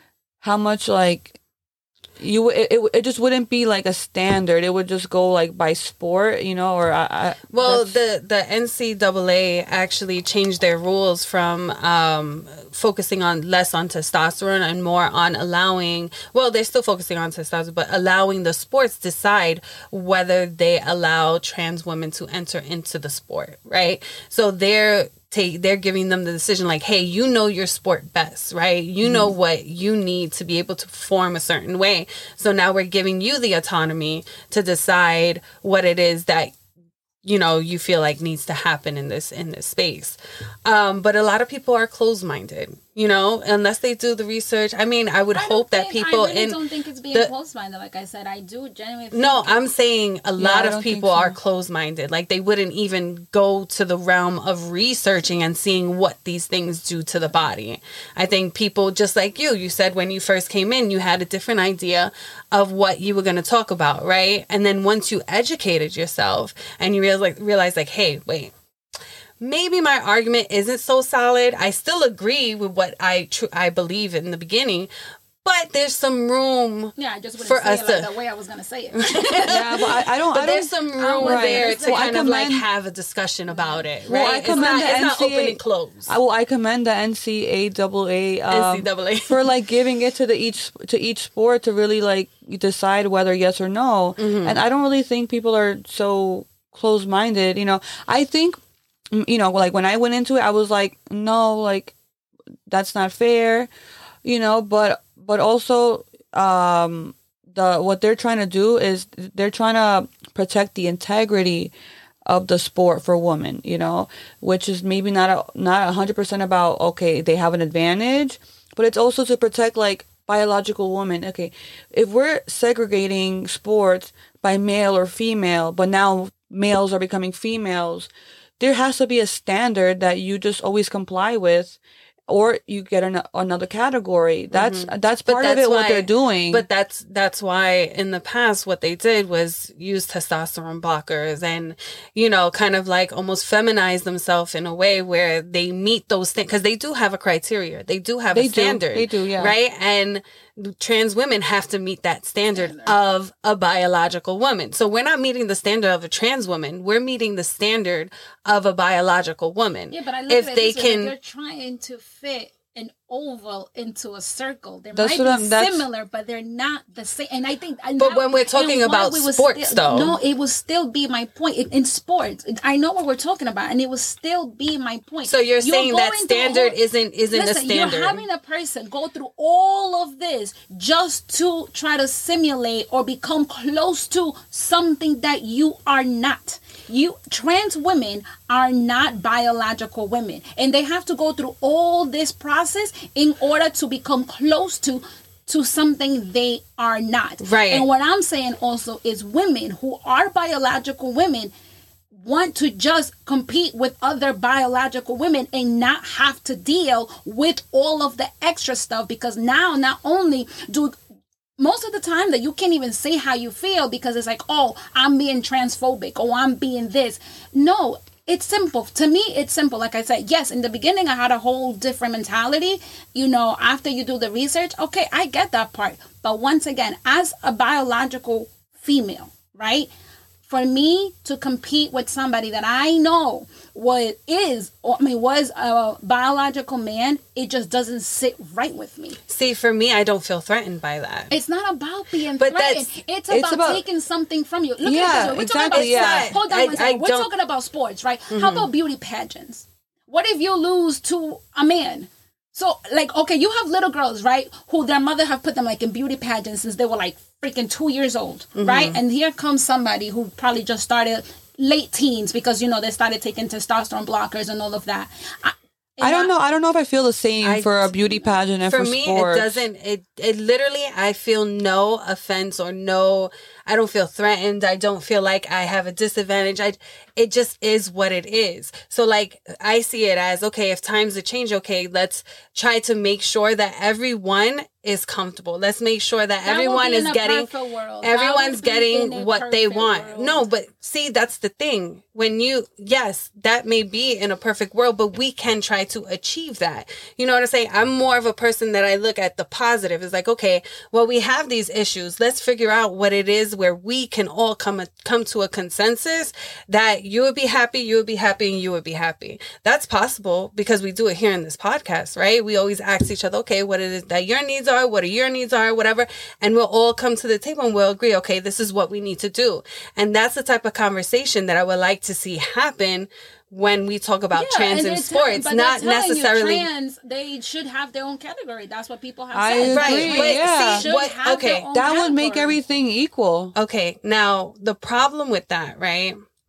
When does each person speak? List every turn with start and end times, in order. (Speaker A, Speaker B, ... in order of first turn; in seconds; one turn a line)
Speaker A: 0.4-1.4
Speaker A: 2.2-8.0
Speaker B: 7.5-36.5
Speaker A: 29.0-29.3
Speaker B: 37.2-46.6
Speaker C: 45.3-49.6
Speaker B: 49.1-68.5
Speaker A: 50.4-51.4
Speaker B: 69.4-74.9
Speaker B: 75.4-78.1
Speaker C: 77.0-79.9
Speaker B: 78.9-86.1
Speaker A: 79.5-82.6
Speaker C: 81.0-82.3
Speaker C: 83.6-85.0
Speaker A: 84.1-98.6
Speaker B: 88.5-89.5
Speaker B: 94.2-94.6
Speaker A: 99.1-102.0
Speaker A: 102.7-103.7
Speaker A: 104.2-111.7
Speaker A: 112.3-136.7
Speaker B: 134.5-161.1
Speaker A: 148.3-149.6
Speaker C: 152.6-152.9
Speaker C: 159.9-176.8
Speaker A: 164.9-165.9
Speaker B: 168.0-170.2
Speaker B: 175.2-178.2
Speaker C: 177.3-201.5
Speaker B: 197.4-197.9
Speaker C: 202.1-211.0
Speaker C: 211.6-229.9
Speaker C: 230.5-239.2
Speaker B: 239.3-241.3
Speaker C: 241.3-266.3
Speaker B: 242.4-242.9
Speaker A: 243.3-243.8
Speaker A: 244.8-246.3
Speaker B: 245.7-247.3
Speaker B: 248.3-248.7
Speaker B: 258.6-259.0
Speaker A: 266.0-269.6
Speaker B: 267.4-326.7
Speaker C: 286.4-290.4
Speaker C: 324.3-332.6
Speaker A: 329.3-330.9
Speaker B: 329.7-331.7
Speaker A: 331.7-333.5
Speaker B: 333.6-336.2